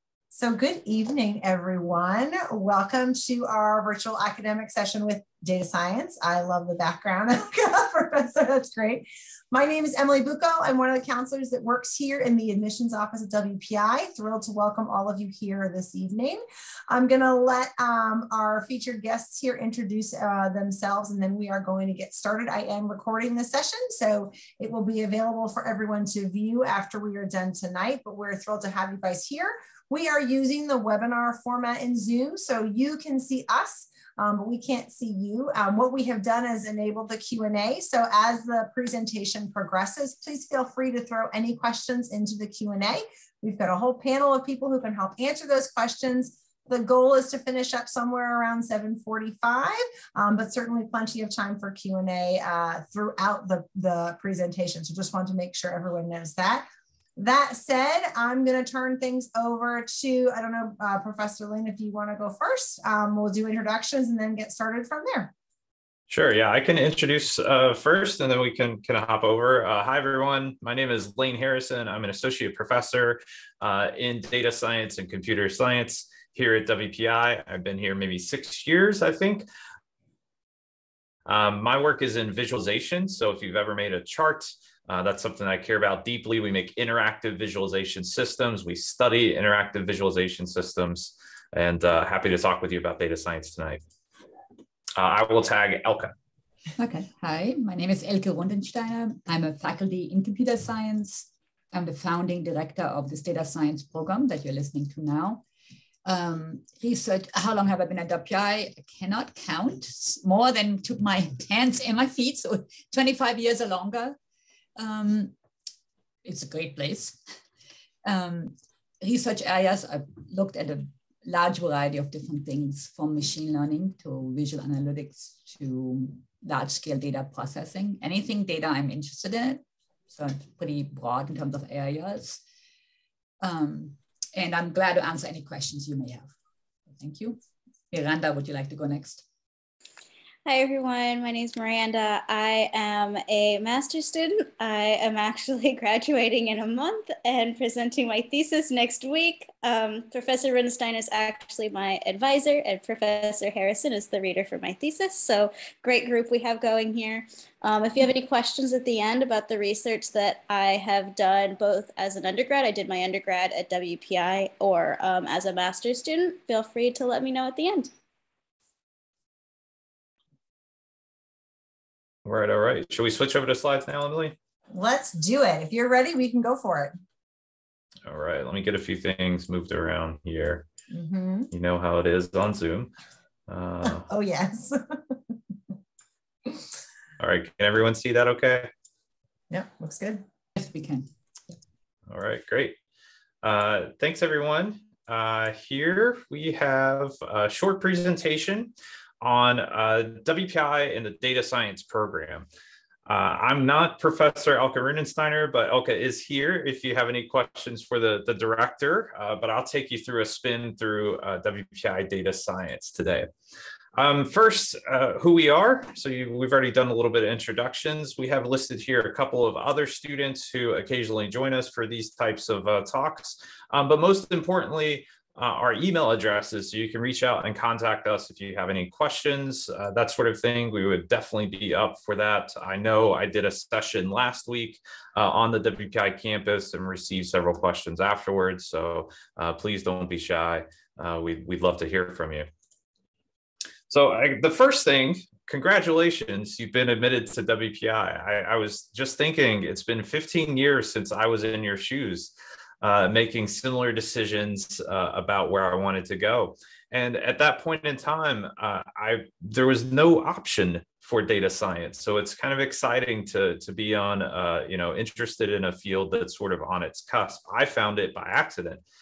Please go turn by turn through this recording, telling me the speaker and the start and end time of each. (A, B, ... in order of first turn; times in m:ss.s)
0:00.3-0:56.7 A
0:57.2-1:05.3 A
1:06.1-1:19.5 B
1:21.3-1:33.8 B
1:35.0-1:36.1 B
1:36.8-1:45.4 C
1:46.0-1:54.2 C
1:54.8-1:55.3 C
1:56.2-1:57.2 C
1:58.0-2:12.4 C
2:13.4-2:16.3 C
2:17.0-2:17.4 C
2:17.9-2:19.2 C
2:20.4-2:47.9 D
2:52.2-2:54.4 B
2:54.7-2:57.0 A
2:58.0-3:00.7 B
3:00.9-3:01.5 A
3:01.5-3:02.9 B
3:03.5-3:04.1 B
3:03.8-3:05.2 A
3:07.2-3:08.7 B
3:09.5-3:10.2 A
3:10.6-3:11.1 C
3:12.1-3:12.8 B
3:13.4-3:22.5 B
3:23.1-3:33.3 B
3:34.0-4:02.5 B
4:03.9-4:28.8 B